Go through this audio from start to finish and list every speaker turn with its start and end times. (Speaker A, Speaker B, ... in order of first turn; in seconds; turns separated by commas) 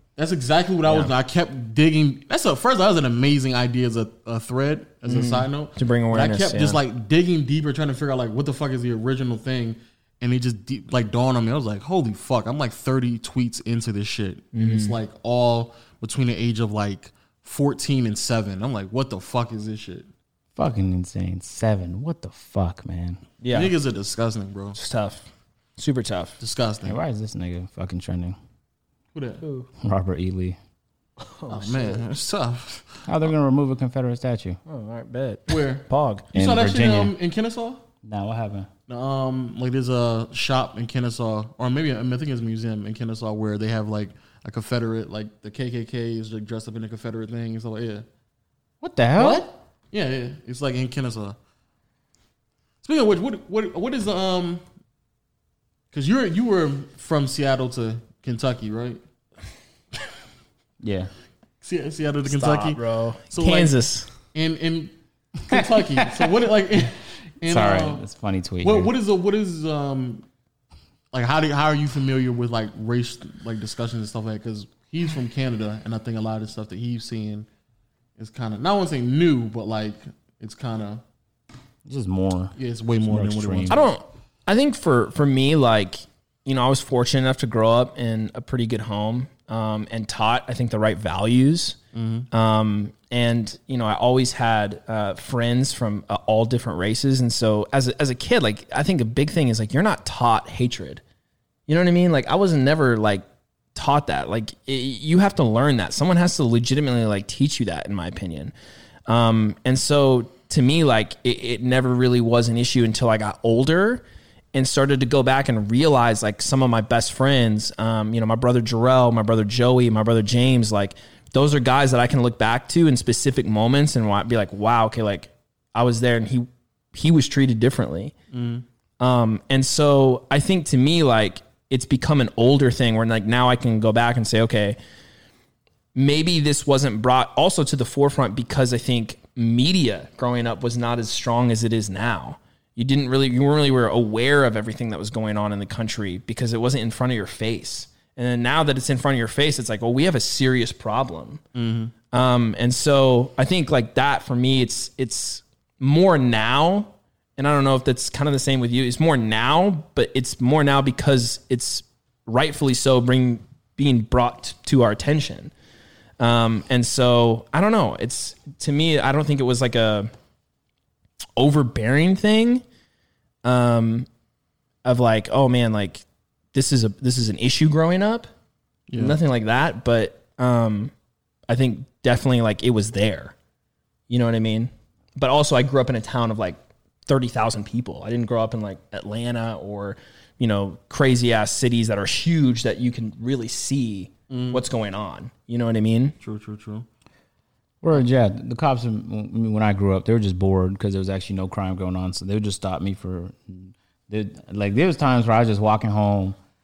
Speaker A: 0.2-20.1, Speaker B: 5.0-6.8, Speaker B: 14.5-14.9, Speaker C: 20.6-23.2, Speaker B: 23.4-23.7, Speaker A: 23.5-24.8, Speaker B: 24.7-26.4, Speaker A: 26.4-27.0, Speaker C: 26.9-28.4, Speaker A: 29.1-29.4, Speaker B: 29.4-29.7, Speaker C: 29.8-30.6, Speaker B: 31.2-32.0, Speaker A: 31.5-33.1, Speaker C: 33.0-34.6, Speaker B: 34.7-36.3, Speaker A: 35.5-37.8, Speaker C: 36.3-37.1, Speaker C: 38.0-38.7, Speaker A: 38.9-48.0, Speaker C: 48.8-49.5, Speaker B: 49.2-49.5, Speaker A: 49.9-51.4, Speaker A: 52.8-54.6, Speaker A: 55.9-59.0, Speaker C: 60.8-61.1, Speaker A: 61.6-62.8, Speaker B: 62.2-64.1, Speaker A: 63.3-63.7, Speaker A: 64.3-64.9, Speaker A: 65.5-68.0, Speaker C: 65.5-66.3, Speaker C: 67.5-68.9, Speaker A: 68.6-70.2, Speaker A: 71.1-77.5, Speaker A: 78.2-81.0, Speaker C: 81.9-82.5, Speaker A: 82.6-83.9, Speaker C: 83.1-83.7, Speaker B: 83.7-91.8, Speaker A: 91.9-92.3, Speaker B: 92.3-101.0, Speaker B: 101.7-108.5, Speaker B: 109.1-128.1, Speaker A: 128.3-128.6, Speaker B: 129.0-134.8, Speaker B: 135.9-151.4, Speaker A: 151.5-151.9, Speaker B: 152.1-165.5, Speaker B: 166.2-170.1, Speaker B: 171.4-172.6, Speaker B: 173.4-174.1, Speaker B: 174.8-178.3, Speaker A: 178.9-179.2, Speaker B: 179.0-180.9, Speaker B: 181.5-183.3, Speaker B: 184.1-196.2, Speaker A: 194.3-194.6, Speaker A: 196.2-196.8, Speaker C: 197.8-206.3